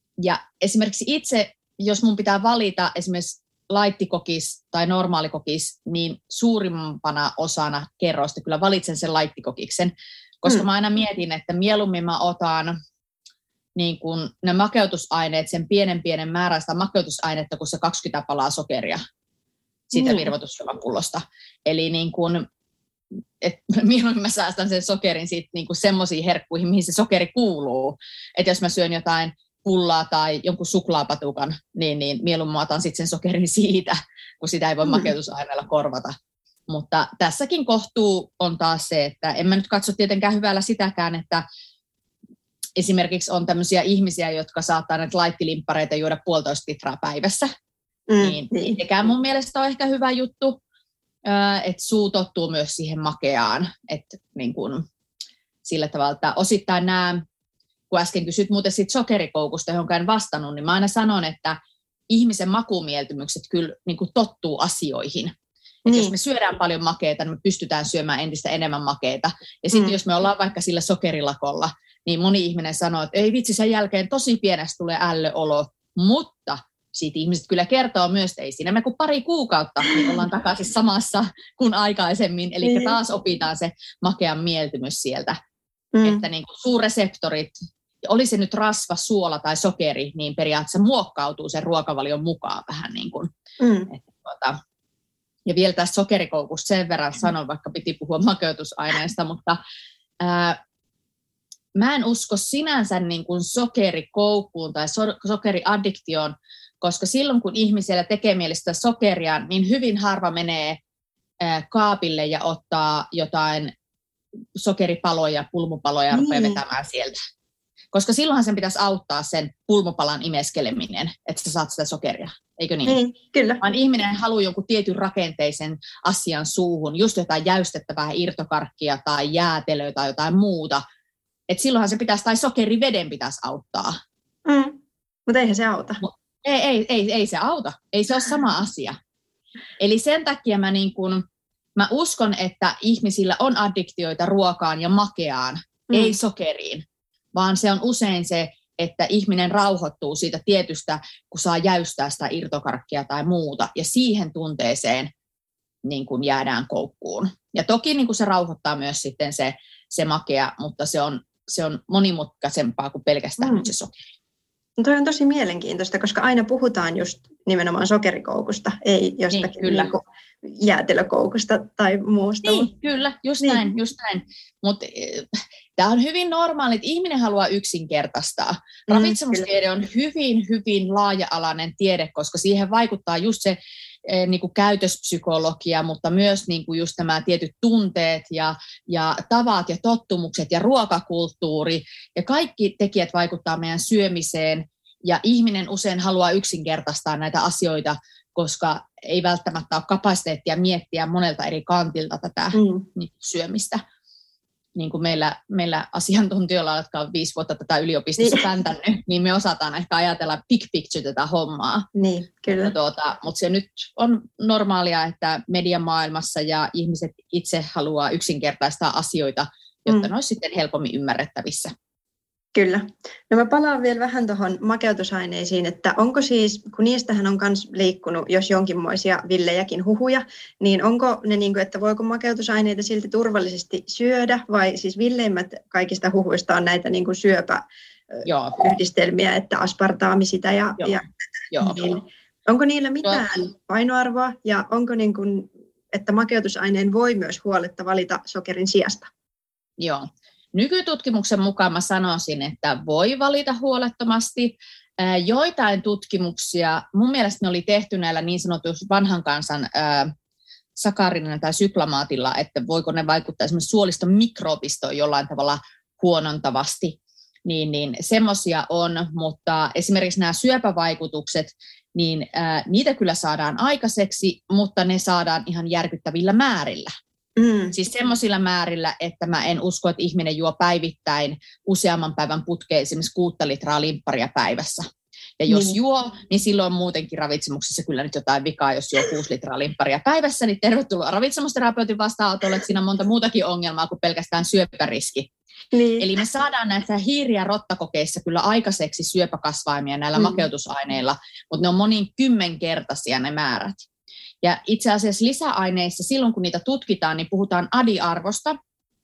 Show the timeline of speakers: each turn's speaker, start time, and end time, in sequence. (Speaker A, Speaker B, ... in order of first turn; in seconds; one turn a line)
Speaker A: 0.2-12.8
Speaker A: 13.8-19.0
Speaker A: 19.9-22.4
Speaker B: 19.9-20.3
Speaker A: 23.4-36.1
Speaker B: 34.9-35.1
Speaker A: 36.7-41.4
Speaker A: 42.8-47.5
Speaker B: 48.1-48.8
Speaker A: 48.2-50.6
Speaker A: 51.2-54.8
Speaker A: 55.6-57.2
Speaker A: 57.9-61.6
Speaker A: 62.1-65.3
Speaker B: 65.8-66.1
Speaker A: 65.9-85.4
Speaker B: 69.7-70.0
Speaker B: 82.6-82.9
Speaker B: 85.9-86.2
Speaker A: 86.0-93.3
Speaker B: 93.6-93.9
Speaker A: 93.9-94.6
Speaker A: 95.5-99.6
Speaker A: 100.2-100.6
Speaker A: 101.7-110.8
Speaker A: 111.4-113.7
Speaker A: 114.5-117.2
Speaker B: 116.1-116.6
Speaker A: 117.9-123.0
Speaker B: 122.8-123.6
Speaker A: 123.6-130.8
Speaker A: 131.5-134.0
Speaker B: 134.4-136.0
Speaker A: 136.0-139.0
Speaker A: 139.8-141.2
Speaker A: 141.8-155.1
Speaker A: 155.8-164.0
Speaker B: 163.4-163.7
Speaker B: 164.8-172.7
Speaker A: 169.3-169.9
Speaker A: 172.4-203.8
Speaker B: 178.9-179.4
Speaker B: 202.5-202.8
Speaker A: 204.8-211.9
Speaker B: 211.9-212.7
Speaker A: 212.5-221.7
Speaker B: 222.5-249.1
Speaker A: 238.2-238.6
Speaker A: 240.8-242.0
Speaker A: 249.8-260.1
Speaker A: 260.8-276.9
Speaker B: 277.4-277.7
Speaker A: 277.7-284.9
Speaker A: 285.4-295.3
Speaker B: 285.5-285.8
Speaker B: 295.7-296.1
Speaker A: 296.0-303.9
Speaker A: 304.4-308.6